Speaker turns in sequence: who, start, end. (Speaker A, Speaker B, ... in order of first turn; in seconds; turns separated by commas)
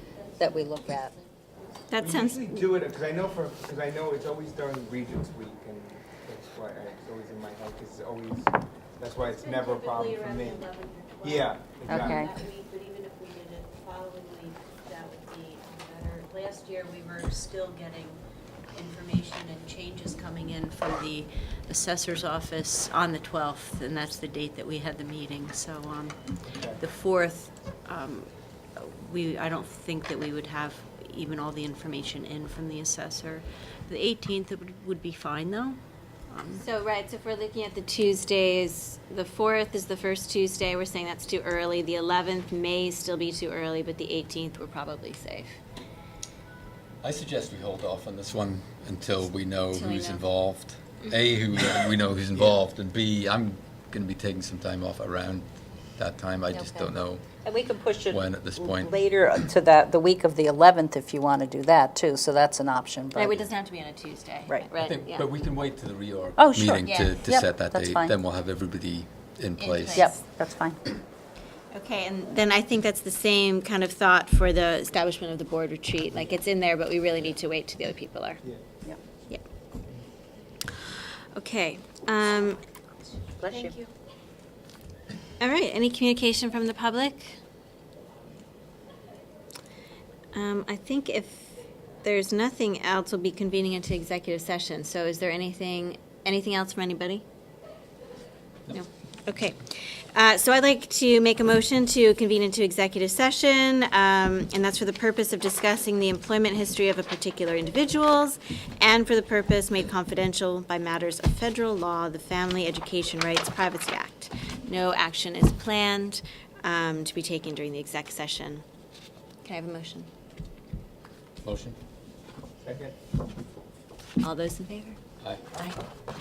Speaker A: 0.4-1.1, Speaker B: 1.9-2.7, Speaker C: 2.0-12.3, Speaker D: 9.3-18.2, Speaker A: 11.9-12.3, Speaker D: 18.8-35.8, Speaker C: 26.5-26.8, Speaker D: 36.3-36.6, Speaker B: 36.5-45.6, Speaker E: 47.0-59.0, Speaker B: 49.7-50.2, Speaker A: 57.4-63.5, Speaker B: 63.1-65.3, Speaker E: 64.8-70.1, Speaker A: 66.4-68.1, Speaker D: 69.6-70.2, Speaker A: 70.0-70.8, Speaker B: 71.7-78.4, Speaker B: 80.7-82.6, Speaker B: 83.4-83.9, Speaker B: 85.4-87.4, Speaker B: 90.3-97.2, Speaker B: 98.7-118.7, Speaker B: 119.4-120.1, Speaker E: 121.4-121.8, Speaker C: 122.6-123.0, Speaker B: 124.2-125.0